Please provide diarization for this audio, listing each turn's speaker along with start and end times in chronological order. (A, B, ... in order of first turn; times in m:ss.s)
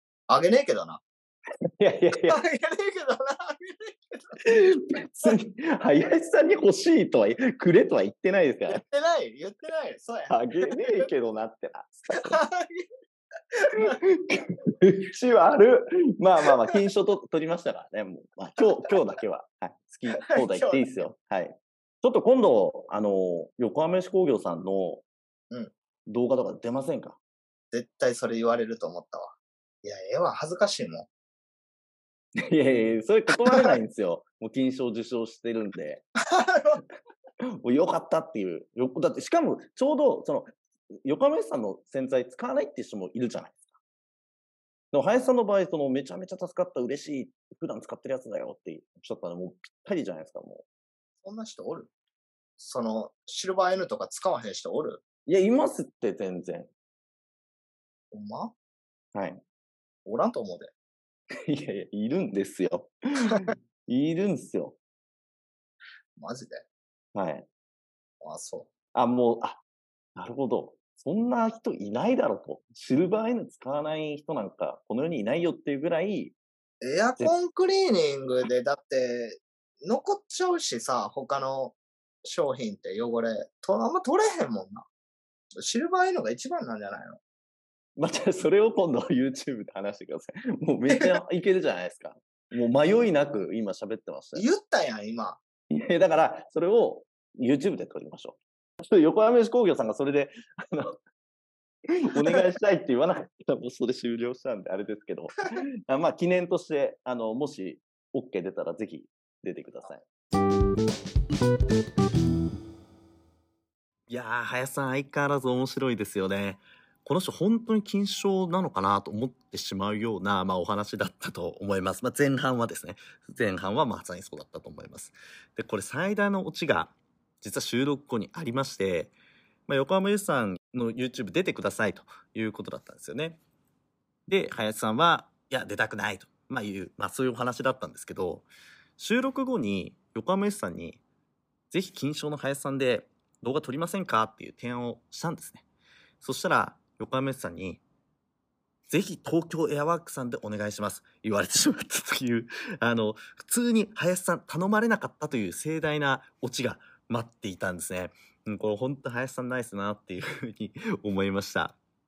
0:00.3-0:01.0 A
0:01.8-0:02.4 B
0:02.3-0:03.9 A
0:04.4-0:08.8 B
0:08.7-0:10.7 A
0:10.3-0:12.4 B
0:12.2-0:12.8 A
0:13.8-0:25.0 B
0:20.2-0:20.9 A
0:26.1-0:27.2 B
0:27.7-0:31.1 A
0:32.4-0:36.0 B
0:36.3-0:36.8 A
0:37.5-0:40.5 B
0:41.0-0:43.7 B
0:44.9-0:50.6 B
0:51.2-0:51.9 A
0:52.6-0:55.0 A
0:55.2-0:56.7 B
0:58.1-0:58.5 A
0:59.1-0:59.4 B
1:00.0-1:00.7 A
1:01.3-1:04.8 B
1:06.2-1:06.6 A
1:07.1-1:07.4 B
1:08.2-1:08.7 A
1:08.9-1:09.6 B
1:10.2-1:16.3 B
1:16.8-1:24.8 A
1:25.6-1:27.2 A
1:28.0-1:34.4 B
1:30.9-1:31.2 A
1:34.3-1:35.4 A
1:35.7-1:41.0 B
1:41.9-1:50.0 B
1:54.1-2:09.1 C
2:09.7-2:13.4 C
2:14.3-2:18.5 C
2:19.0-2:21.0 C
2:21.7-2:25.6 C
2:26.2-2:27.8 C
2:28.9-2:41.8 C